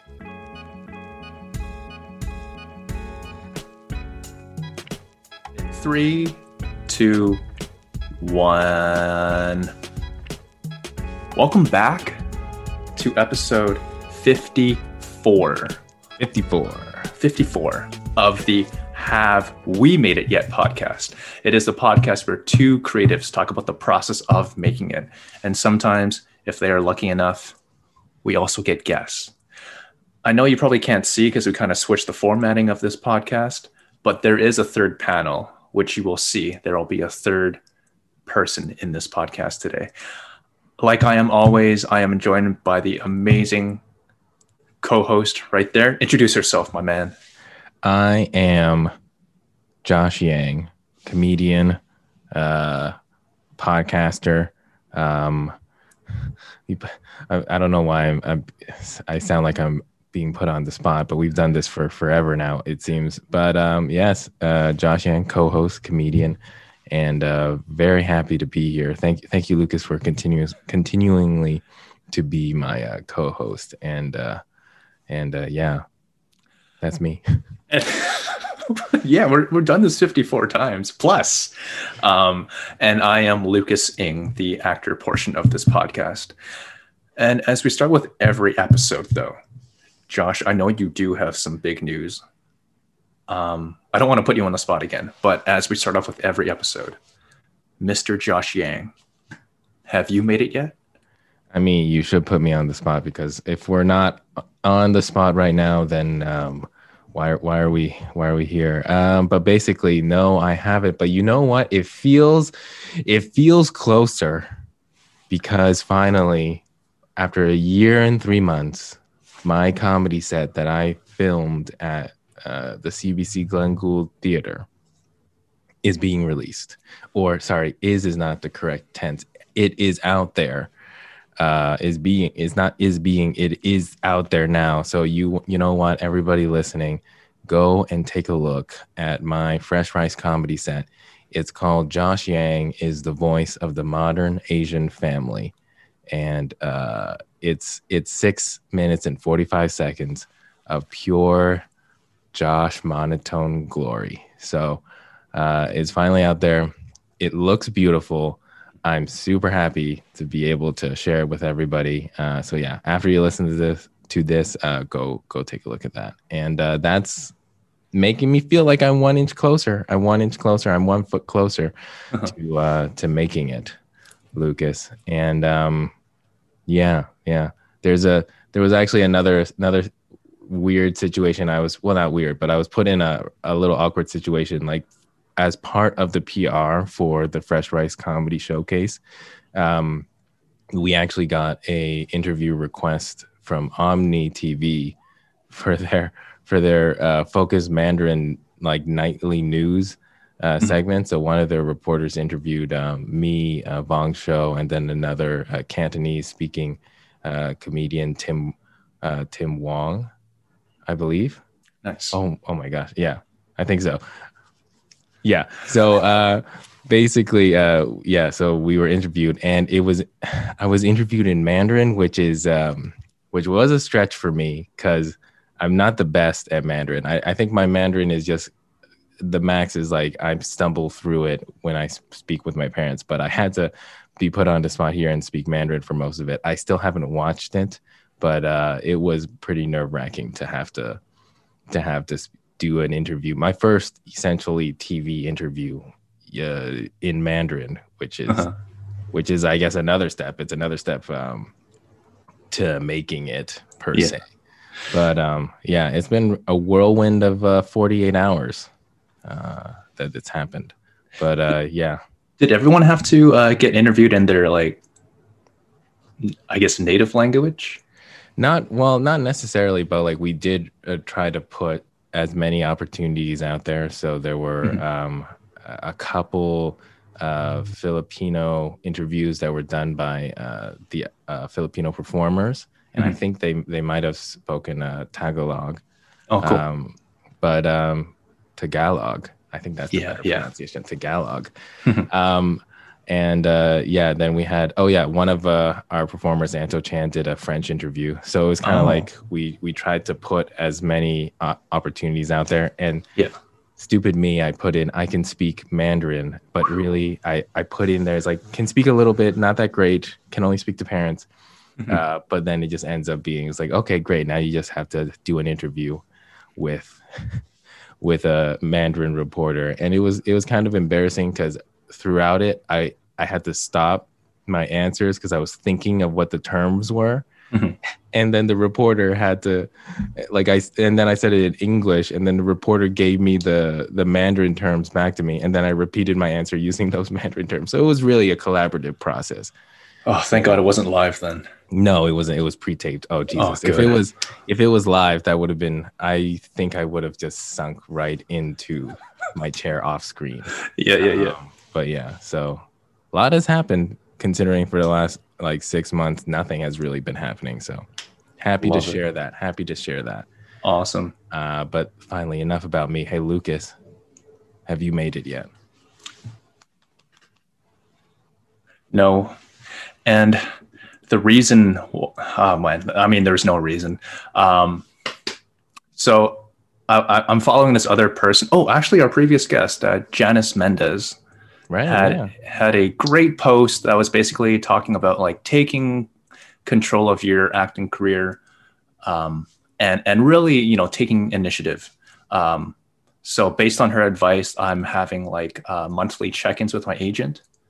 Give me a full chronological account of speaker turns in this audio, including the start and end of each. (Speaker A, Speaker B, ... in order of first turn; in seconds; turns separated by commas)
Speaker A: 5.5-7.4, Speaker A: 8.2-9.7, Speaker A: 11.3-12.2, Speaker A: 12.9-15.8, Speaker B: 16.2-17.1, Speaker A: 17.1-27.6, Speaker A: 28.2-29.3, Speaker A: 30.2-37.6, Speaker A: 38.2-39.9, Speaker A: 40.8-43.8, Speaker A: 44.8-47.1, Speaker B: 47.8-48.9, Speaker B: 49.8-51.8, Speaker B: 52.3-52.9, Speaker B: 53.6-55.5, Speaker B: 56.7-74.4, Speaker B: 75.1-75.8, Speaker B: 76.8-77.2, Speaker A: 77.7-86.3, Speaker A: 87.2-89.4, Speaker A: 90.1-92.2, Speaker A: 93.3-97.0, Speaker A: 97.8-98.9, Speaker A: 99.8-100.7, Speaker B: 101.5-114.5, Speaker B: 115.3-116.6, Speaker B: 117.2-124.7, Speaker B: 125.8-130.7, Speaker B: 131.4-145.5, Speaker B: 146.1-151.6, Speaker B: 152.3-167.3, Speaker B: 167.9-173.8, Speaker B: 174.3-175.9, Speaker B: 176.7-179.9, Speaker B: 180.4-189.0, Speaker B: 189.5-190.1, Speaker B: 190.7-194.9, Speaker B: 195.5-210.1, Speaker B: 210.8-211.4, Speaker A: 211.8-212.2, Speaker B: 212.1-214.0, Speaker B: 215.2-228.5, Speaker B: 229.2-241.0, Speaker B: 241.7-248.5, Speaker A: 248.3-248.5, Speaker B: 249.1-251.5, Speaker B: 252.5-254.3, Speaker B: 254.9-258.7, Speaker B: 259.2-262.0, Speaker A: 262.4-264.8, Speaker A: 266.2-267.8, Speaker B: 268.4-285.8, Speaker A: 286.3-286.6, Speaker B: 286.4-291.5, Speaker A: 289.9-290.5, Speaker B: 292.1-303.1, Speaker A: 298.6-299.0, Speaker B: 303.8-311.3, Speaker B: 311.9-316.0, Speaker B: 316.6-317.4, Speaker B: 318.0-327.3, Speaker A: 327.5-327.8, Speaker B: 328.1-339.5, Speaker A: 340.1-341.5, Speaker B: 341.7-357.8, Speaker A: 343.3-344.0, Speaker A: 350.6-351.4, Speaker B: 358.4-360.2, Speaker A: 358.6-359.0, Speaker A: 360.6-361.1, Speaker B: 361.3-363.7, Speaker B: 364.7-365.5, Speaker A: 368.9-369.4, Speaker A: 370.0-370.5, Speaker A: 371.1-374.9, Speaker A: 375.9-381.2, Speaker B: 381.7-382.3, Speaker A: 381.9-386.1, Speaker A: 386.6-388.4, Speaker A: 389.0-397.4